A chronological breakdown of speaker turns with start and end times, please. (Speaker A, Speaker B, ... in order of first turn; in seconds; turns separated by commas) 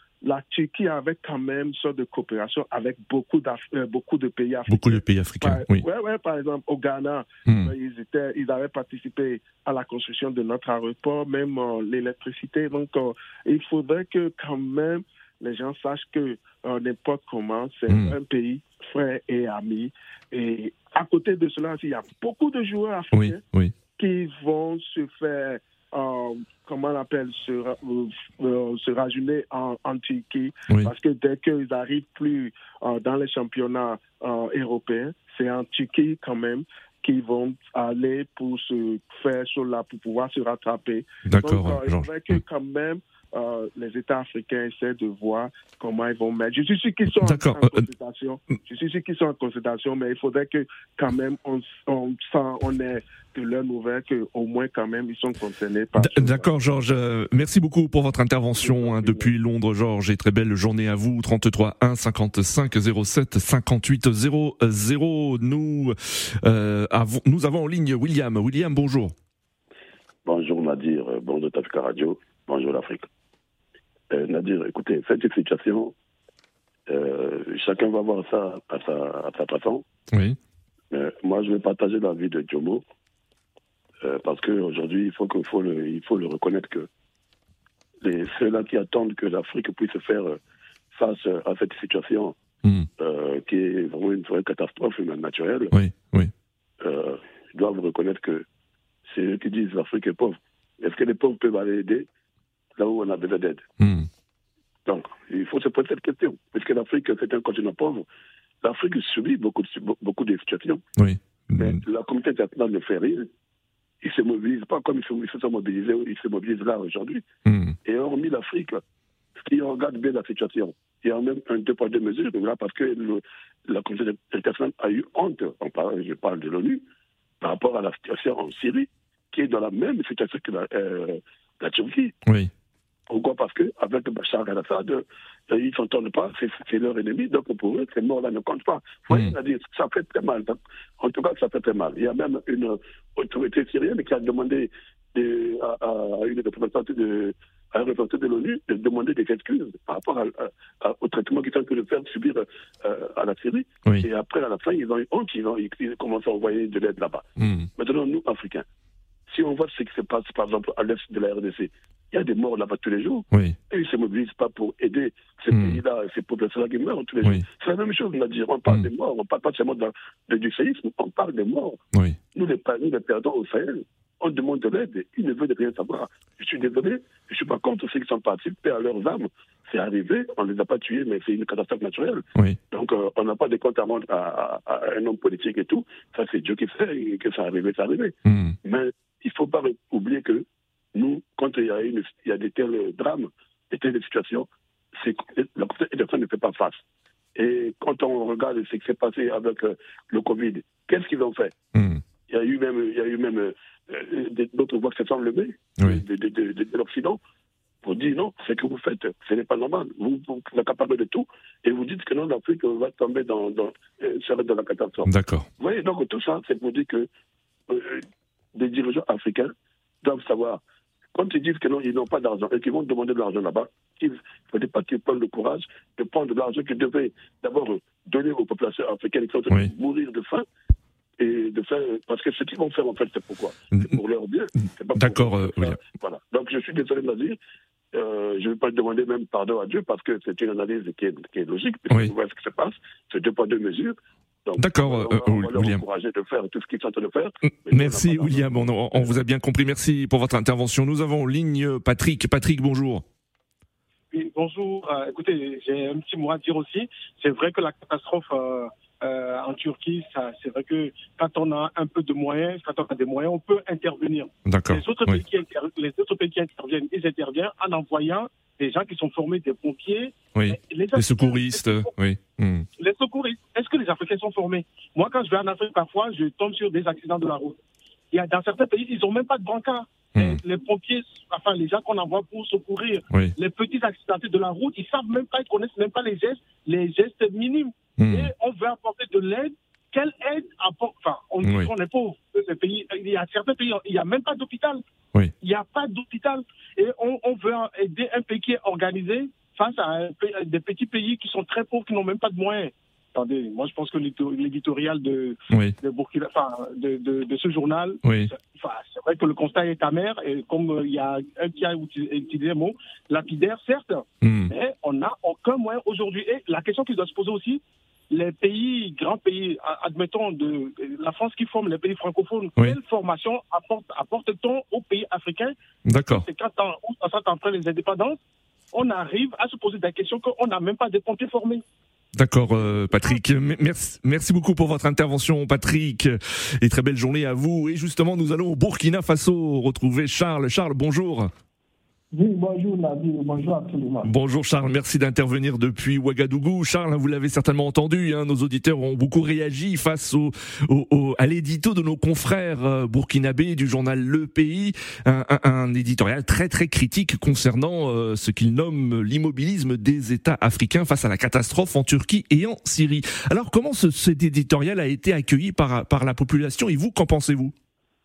Speaker A: 0.2-23.4, Speaker B: 4.7-5.8, Speaker B: 7.5-7.7, Speaker B: 17.9-18.1, Speaker B: 23.1-23.7, Speaker A: 23.9-56.5, Speaker B: 41.2-42.4, Speaker B: 47.1-47.8, Speaker B: 56.0-69.1, Speaker A: 58.6-59.3, Speaker C: 70.2-73.1, Speaker C: 74.1-75.9, Speaker C: 76.9-79.9, Speaker B: 80.1-80.4, Speaker C: 80.9-82.8, Speaker C: 84.0-86.9, Speaker C: 88.0-90.4, Speaker C: 90.9-92.4, Speaker C: 93.0-95.7, Speaker B: 95.7-96.3, Speaker C: 96.8-98.5, Speaker C: 99.1-102.1, Speaker C: 102.8-103.7, Speaker B: 103.8-104.1, Speaker C: 104.9-108.1, Speaker C: 108.6-110.8, Speaker B: 111.0-111.8, Speaker C: 111.6-113.3, Speaker C: 114.0-117.2, Speaker B: 117.5-117.8, Speaker C: 117.8-118.8, Speaker C: 119.5-126.8, Speaker C: 127.4-132.1, Speaker C: 133.1-158.7, Speaker B: 157.4-157.7, Speaker C: 159.3-171.8, Speaker B: 163.3-163.6, Speaker B: 165.5-165.8, Speaker C: 172.3-196.8, Speaker B: 188.2-188.6, Speaker C: 197.4-201.6, Speaker B: 201.7-202.0, Speaker C: 202.3-207.2, Speaker C: 207.8-217.1, Speaker B: 215.1-215.5, Speaker C: 217.7-220.6, Speaker C: 221.1-230.4, Speaker C: 231.2-237.4, Speaker B: 233.7-234.0, Speaker B: 234.6-235.8, Speaker C: 237.9-249.2, Speaker B: 244.6-245.8, Speaker B: 247.4-253.1, Speaker D: 254.1-271.9, Speaker B: 264.4-265.2, Speaker B: 270.3-272.6, Speaker D: 272.8-277.6, Speaker D: 278.1-294.8, Speaker B: 280.1-280.4, Speaker B: 288.0-288.3, Speaker B: 291.4-291.7, Speaker D: 295.4-325.5, Speaker B: 305.5-305.8, Speaker B: 308.0-308.3, Speaker B: 314.2-314.5, Speaker B: 325.9-326.2, Speaker D: 326.1-328.2, Speaker D: 328.7-331.6, Speaker B: 332.1-341.3, Speaker E: 342.1-344.1, Speaker B: 344.0-367.5